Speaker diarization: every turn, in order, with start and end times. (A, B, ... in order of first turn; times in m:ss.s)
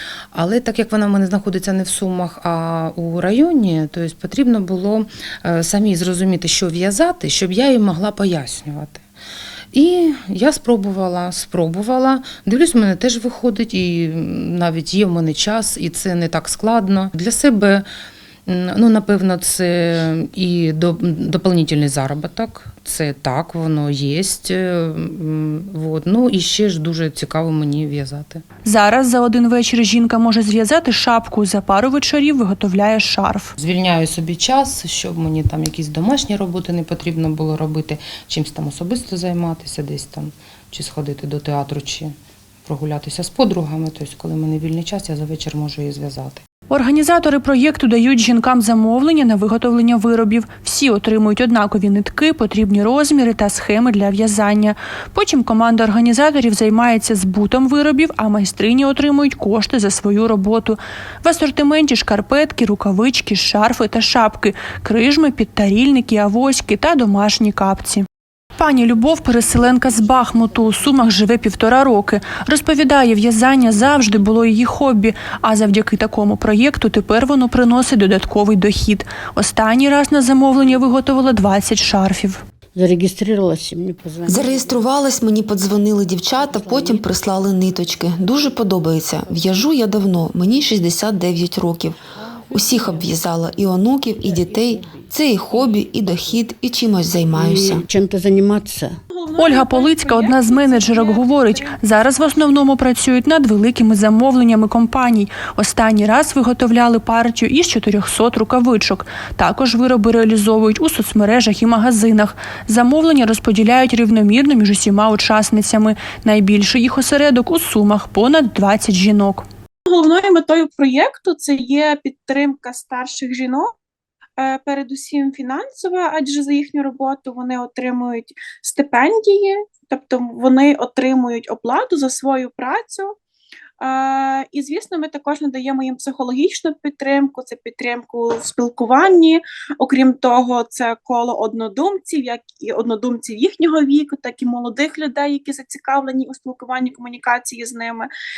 0:00.3-0:09.0 A
0:09.7-0:17.8 A
0:18.5-0:28.4 A
0:28.6-0:33.5 B
0:33.6-0:42.1 A
0:42.6-0:46.4 A
0:46.7-1:08.0 B
1:08.6-1:22.4 B
1:22.7-1:24.4 C
1:24.3-1:37.8 D
1:26.7-1:27.0 C
1:37.3-1:39.0 C
1:39.1-1:41.8 E
1:39.4-1:59.4 B
1:59.9-2:03.7 E
2:04.4-2:13.2 E
2:13.8-2:28.1 E